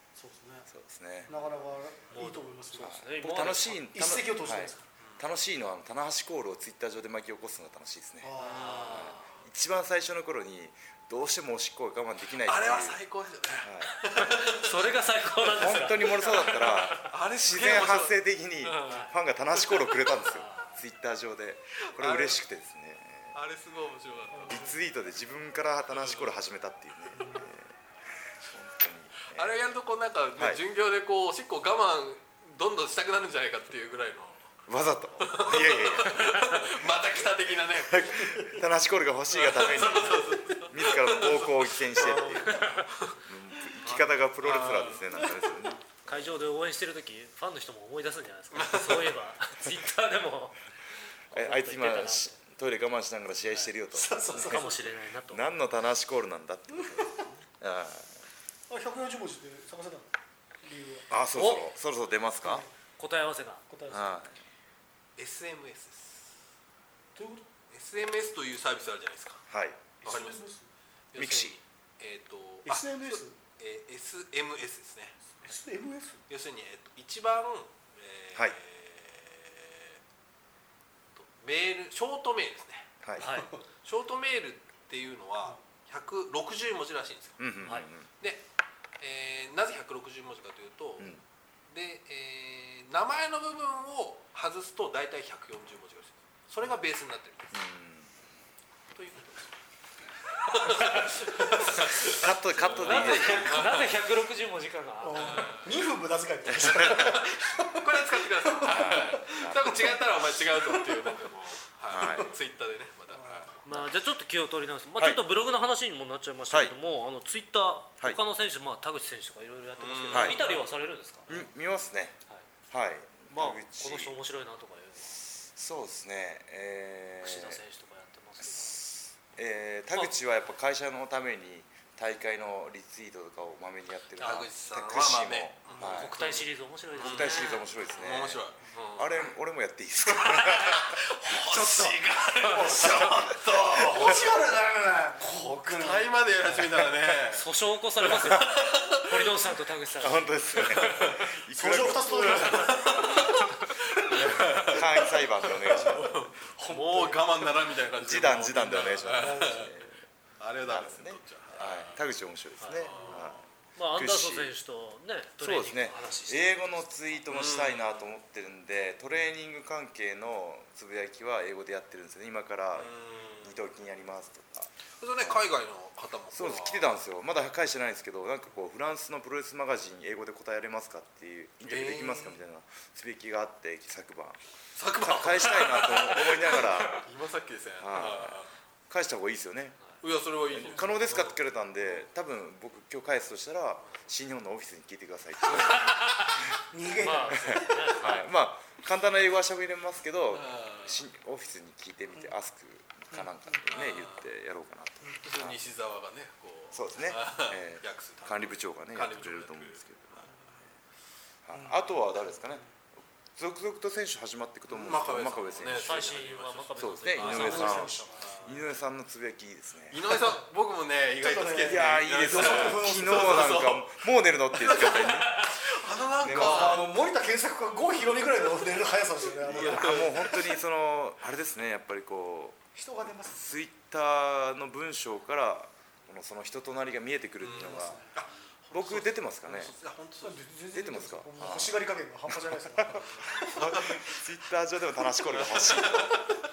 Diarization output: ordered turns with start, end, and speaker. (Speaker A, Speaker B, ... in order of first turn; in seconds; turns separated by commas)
Speaker A: 0.2-0.7, Speaker B: 0.7-1.3, Speaker A: 1.3-3.0, Speaker C: 2.1-3.9, Speaker B: 2.8-13.0, Speaker A: 3.9-4.8, Speaker A: 8.2-9.0, Speaker D: 8.4-9.3, Speaker C: 8.4-9.2, Speaker D: 12.3-20.0, Speaker B: 13.6-13.9, Speaker C: 14.1-17.1, Speaker B: 15.6-23.4, Speaker C: 20.2-20.7, Speaker D: 21.9-22.4, Speaker D: 23.3-24.7, Speaker A: 24.3-24.8, Speaker B: 24.5-27.7, Speaker D: 25.9-26.3, Speaker A: 27.1-27.5, Speaker B: 28.4-29.5, Speaker D: 29.3-34.4, Speaker B: 30.4-30.6, Speaker B: 34.7-36.6, Speaker D: 35.2-38.5, Speaker B: 37.9-46.3, Speaker D: 39.3-43.2, Speaker C: 42.5-42.9, Speaker D: 43.8-45.3, Speaker C: 46.1-50.6, Speaker D: 48.5-49.2, Speaker C: 51.3-52.4, Speaker B: 51.3-54.7, Speaker A: 53.9-54.7, Speaker C: 54.3-55.4, Speaker B: 55.3-58.1, Speaker A: 56.8-57.3, Speaker A: 58.7-60.1, Speaker A: 60.6-61.1, Speaker B: 61.1-62.6, Speaker C: 61.4-61.6, Speaker A: 62.4-62.7, Speaker C: 63.0-63.6, Speaker A: 63.7-64.2, Speaker B: 63.9-64.4, Speaker D: 65.2-66.3, Speaker A: 67.2-67.5, Speaker D: 67.7-69.4, Speaker B: 69.5-69.8, Speaker A: 70.0-70.7, Speaker D: 70.0-70.4, Speaker D: 71.1-75.2, Speaker B: 71.2-71.5, Speaker A: 72.7-73.4, Speaker A: 75.4-76.2, Speaker D: 76.3-80.0, Speaker D: 81.2-82.9, Speaker B: 83.0-83.3, Speaker C: 83.2-83.5, Speaker D: 83.8-88.5, Speaker B: 87.4-88.1, Speaker D: 89.0-91.1, Speaker D: 91.7-97.6, Speaker B: 97.5-98.1, Speaker D: 98.9-99.5, Speaker D: 100.3-104.0, Speaker C: 101.7-102.1, Speaker B: 101.8-103.8, Speaker C: 102.7-105.7, Speaker A: 105.0-111.1, Speaker D: 105.2-105.8, Speaker B: 106.5-107.2, Speaker D: 106.8-113.7, Speaker B: 108.7-110.0, Speaker B: 111.9-112.3, Speaker A: 112.0-112.3, Speaker A: 113.1-113.5, Speaker C: 113.7-121.5, Speaker D: 119.8-120.6, Speaker B: 120.1-120.4, Speaker B: 121.3-122.2, Speaker B: 122.7-124.1, Speaker C: 123.3-125.2, Speaker B: 125.5-127.6, Speaker C: 127.2-128.9, Speaker B: 128.4-136.2, Speaker C: 134.2-134.5, Speaker D: 134.2-139.3, Speaker C: 135.8-138.0, Speaker B: 137.0-141.0, Speaker D: 140.3-144.3, Speaker A: 141.5-142.0, Speaker C: 142.4-142.7, Speaker A: 142.5-146.1, Speaker B: 142.8-144.2, Speaker D: 145.3-147.5, Speaker C: 147.3-151.1, Speaker D: 148.0-149.4, Speaker B: 150.0-152.9, Speaker D: 150.6-151.3, Speaker A: 151.5-155.1, Speaker D: 152.5-153.3, Speaker B: 154.1-156.2, Speaker D: 154.1-159.7, Speaker A: 155.7-157.4, Speaker B: 158.0-160.0, Speaker A: 159.1-159.7, Speaker D: 160.4-162.0, Speaker B: 160.7-163.4, Speaker C: 162.6-163.0, Speaker D: 162.7-163.5, Speaker A: 162.9-163.2, Speaker C: 163.8-167.2, Speaker B: 164.0-164.5, Speaker B: 165.4-172.9, Speaker D: 167.3-168.1, Speaker D: 172.7-173.6, Speaker B: 173.4-174.7, Speaker D: 175.0-176.9, Speaker B: 176.3-184.4, Speaker D: 181.6-182.4, Speaker D: 184.8-188.5, Speaker B: 185.0-187.1, Speaker B: 187.8-189.9, Speaker D: 190.0-191.4, Speaker B: 190.5-196.4, Speaker C: 195.6-198.3, Speaker A: 196.7-198.0, Speaker B: 197.3-205.6, Speaker D: 200.3-201.0, Speaker A: 203.1-203.6, Speaker D: 203.7-204.3, Speaker D: 205.2-209.9, Speaker B: 206.7-210.3, Speaker B: 211.5-212.8, Speaker A: 211.5-212.7, Speaker B: 213.4-216.0, Speaker D: 214.7-218.6, Speaker C: 215.8-218.5, Speaker B: 216.8-220.1, Speaker A: 217.2-218.4, Speaker D: 219.9-224.0, Speaker A: 221.2-223.8, Speaker B: 221.7-225.5, Speaker D: 224.6-226.9, Speaker C: 225.0-225.6, Speaker B: 226.2-226.8, Speaker A: 226.2-230.4, Speaker D: 229.2-230.4, Speaker B: 229.5-232.6, Speaker A: 232.8-233.4, Speaker B: 233.3-238.0, Speaker D: 237.4-240.5, Speaker A: 237.5-238.2, Speaker B: 238.7-239.8, Speaker A: 240.2-244.0, Speaker B: 240.7-246.2, Speaker D: 243.1-244.0, Speaker D: 245.4-246.2, Speaker A: 245.7-246.2